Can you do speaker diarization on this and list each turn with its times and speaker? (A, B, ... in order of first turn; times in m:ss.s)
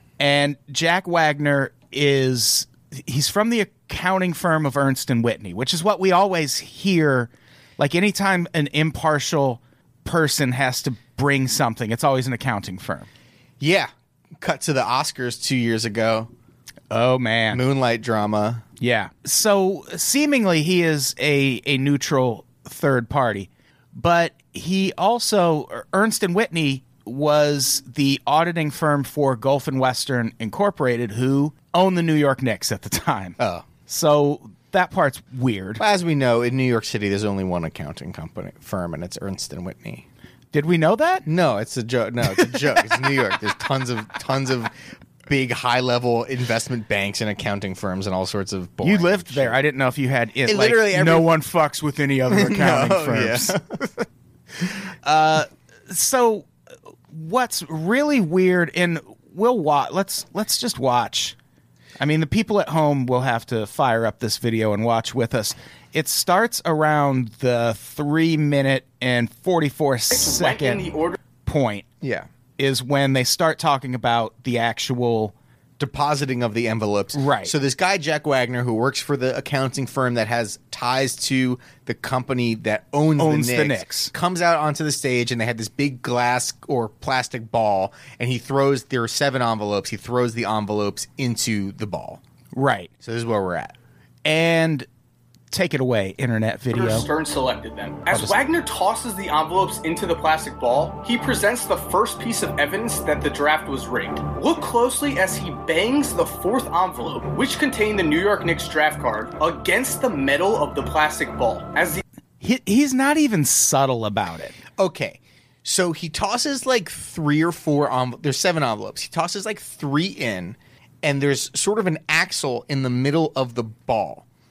0:00.2-0:13.1 A
0:13.6-0:16.3 B
0:16.9-0:17.6 A
0:17.5-0:18.6 B
0:18.8-0:33.4 A
0:33.4-0:33.7 B
0:33.9-0:35.8 A
0:35.8-0:40.0 B
0:40.5-0:41.3 A
0:41.2-0:49.6 B
0:48.8-0:53.6 A
0:50.4-0:51.3 B
0:52.3-0:53.8 B
0:55.0-0:56.5 A
0:57.1-1:01.4 A
1:02.0-1:10.9 A
1:10.1-1:11.2 C
1:11.4-1:11.8 A
1:12.0-1:12.3 B
1:12.6-1:15.3 A
1:15.8-1:32.2 B
1:17.1-1:17.5 A
1:23.2-1:24.1 A
1:32.5-1:32.9 A
1:33.0-1:33.8 B
1:34.2-1:34.9 A
1:35.5-1:37.1 A
1:36.7-1:52.0 C
1:38.1-1:38.4 A
1:52.4-1:54.6 A
1:54.8-2:04.2 B